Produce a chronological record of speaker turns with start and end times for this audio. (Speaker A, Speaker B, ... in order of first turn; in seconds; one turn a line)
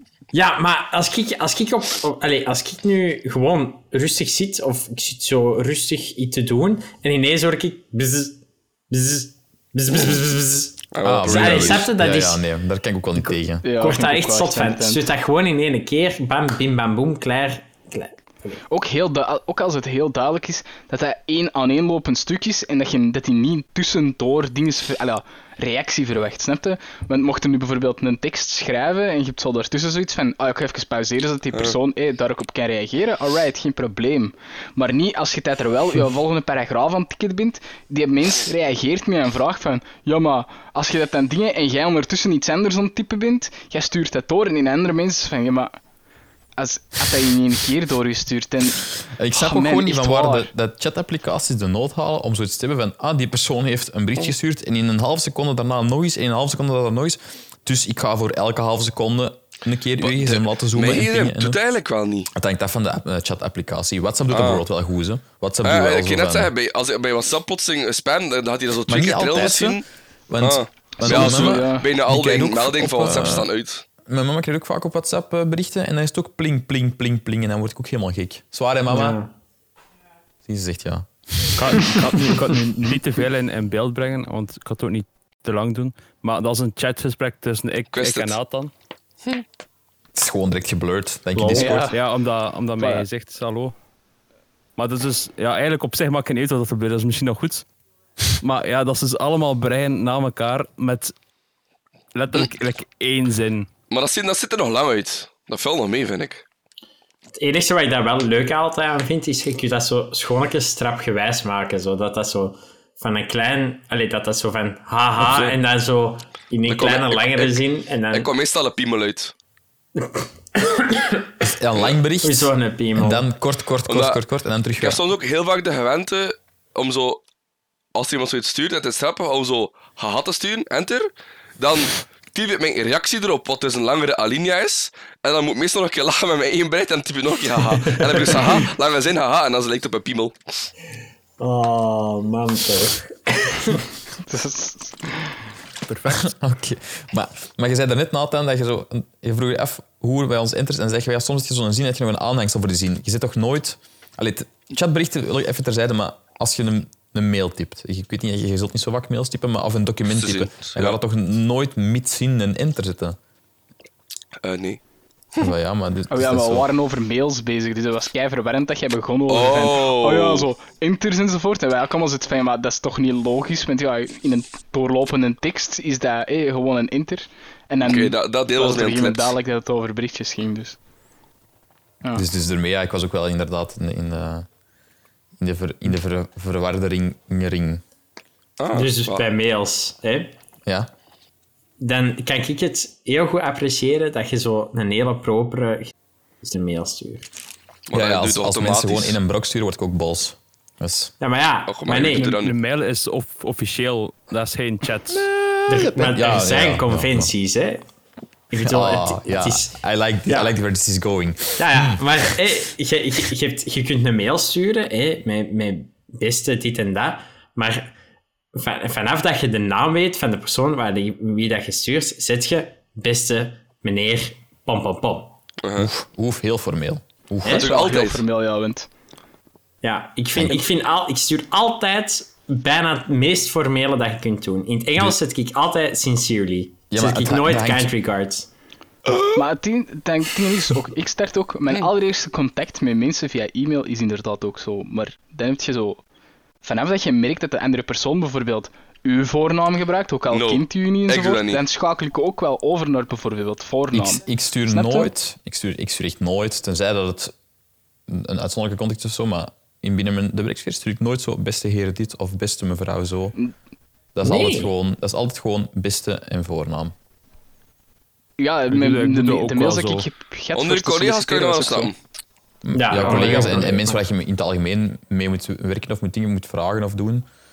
Speaker A: 0.3-12.4
Speaker B: 9.9-10.2
Speaker B: 10.9-11.9
Speaker C: 11.0-13.7
Speaker A: 13.2-18.6
Speaker D: 13.6-15.1
Speaker D: 18.7-45.8
Speaker D: 46.6-50.5
Speaker C: 49.2-61.6
Speaker B: 60.0-62.3
Speaker C: 62.3-66.5
Speaker B: 64.3-64.6
Speaker B: 65.6-69.8
Speaker C: 68.9-73.5
Speaker B: 70.4-73.8
Speaker D: 71.0-71.9
Speaker C: 74.0-79.2
Speaker A: 78.9-79.3
Speaker C: 80.4-82.0
Speaker E: 81.6-88.7
Speaker B: 87.9-88.4
Speaker C: 90.1-91.9
Speaker A: 91.3-91.8
Speaker D: 91.6-92.0
Speaker E: 91.9-93.7
Speaker D: 92.8-93.0
Speaker E: 94.8-97.6
Speaker E: 98.3-101.1
Speaker E: 102.1-103.7
Speaker B: 103.9-106.4
Speaker A: 107.4-118.3
Speaker E: 115.2-115.5
Speaker B: 116.7-117.6
Speaker B: 118.1-119.3
Speaker A: 120.0-121.5
Speaker C: 121.4-125.0
Speaker A: 122.2-123.3
Speaker B: 123.8-124.2
Speaker B: 124.8-127.2
Speaker B: 127.9-140.4
Speaker A: 138.1-138.5
Speaker A: 141.4-143.9
Speaker D: 144.2-145.4
Speaker E: 145.9-146.3
Speaker C: 146.2-163.2
Speaker B: 160.1-161.0
Speaker B: 164.4-164.8
Speaker C: 165.4-166.7
Speaker D: 166.1-180.8
Speaker B: 169.3-170.5
Speaker B: 177.8-179.3
Speaker C: 182.1-184.5
Speaker C: 185.4-187.8
Speaker B: 188.6-189.2
Speaker A: 188.7-190.3
Speaker C: 190.7-190.9
Speaker A: 191.8-197.3
Speaker B: 197.9-199.2
Speaker C: 197.9-201.1
Speaker A: 201.2-202.3
Speaker B: 201.7-202.5
Speaker E: 202.1-205.3
Speaker C: 205.1-207.3
Speaker A: 205.7-207.8
Speaker A: 208.5-209.7
Speaker C: 208.6-212.5
Speaker A: 210.3-210.5
Speaker A: 211.6-217.9
Speaker A: 218.5-225.4
Speaker B: 225.6-225.9
Speaker C: 225.8-227.7
Speaker B: 227.4-228.2
Speaker D: 227.4-228.9
Speaker A: 229.8-238.5
Speaker C: 230.3-230.6
Speaker C: 236.9-237.9
Speaker D: 239.3-246.0
Speaker D: 246.6-255.1
Speaker B: 250.3-251.6
Speaker C: 253.9-257.3
Speaker C: 258.1-263.4
Speaker C: 264.1-266.9
Speaker A: 264.2-264.7
Speaker D: 268.4-271.9
Speaker E: 268.7-270.1
Speaker B: 270.5-271.9
Speaker C: 272.6-277.3
Speaker A: 272.7-274.0